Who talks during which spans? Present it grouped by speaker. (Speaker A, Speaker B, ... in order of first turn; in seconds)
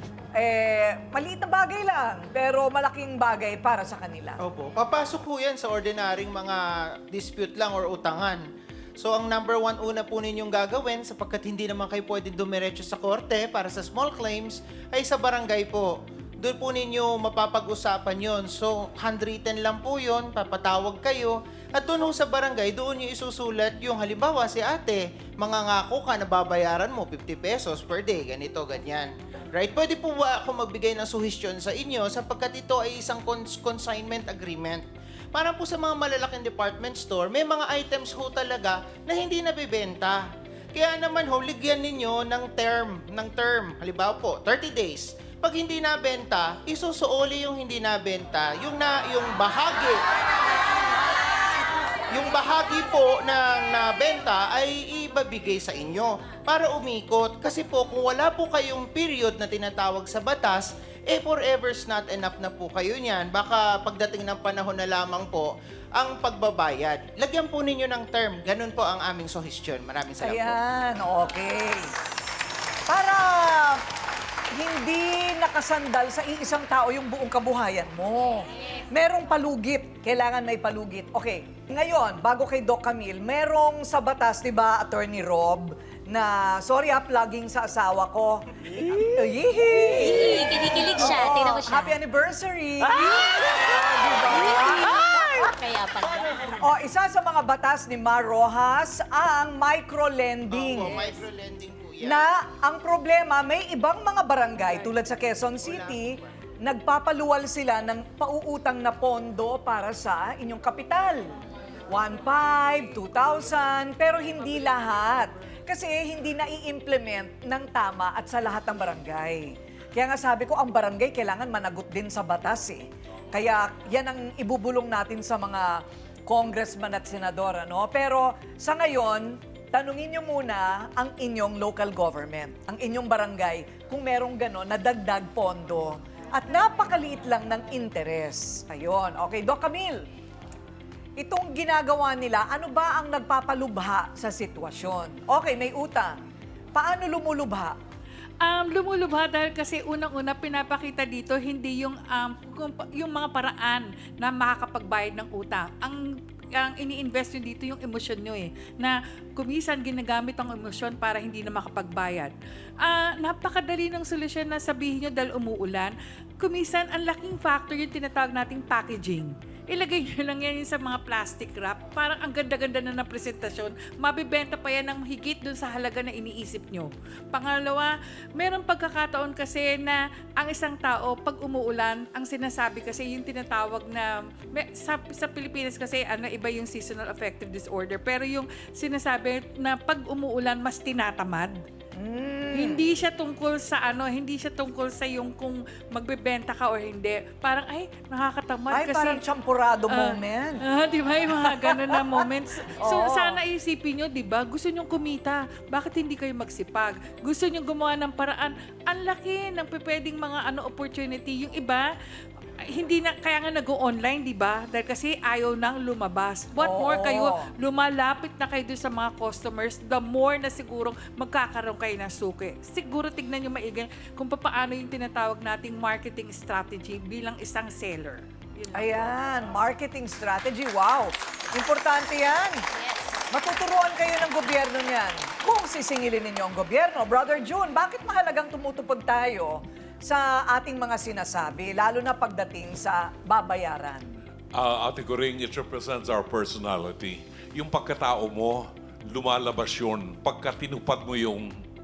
Speaker A: 0.4-4.4, 70.2-71.9, 72.9-73.8, 74.5-95.5, 96.6-101.0, 102.0-111.3, 111.9-140.0, 141.2-146.2, 146.7-147.8, 192.0-192.8, 198.7-200.6, 201.4-202.1, 202.8-203.4, 216.6-217.5, 228.7-232.6, 233.3-244.0
Speaker B: 4.4-8.4, 9.0-40.2, 40.7-50.0, 52.1-70.6, 100.5-102.3, 105.6-106.3
Speaker C: 90.0-92.0, 94.3-96.5
Speaker D: 148.4-191.6, 192.5-199.2, 199.9-211.9, 212.7-229.1
Speaker E: 244.5-251.5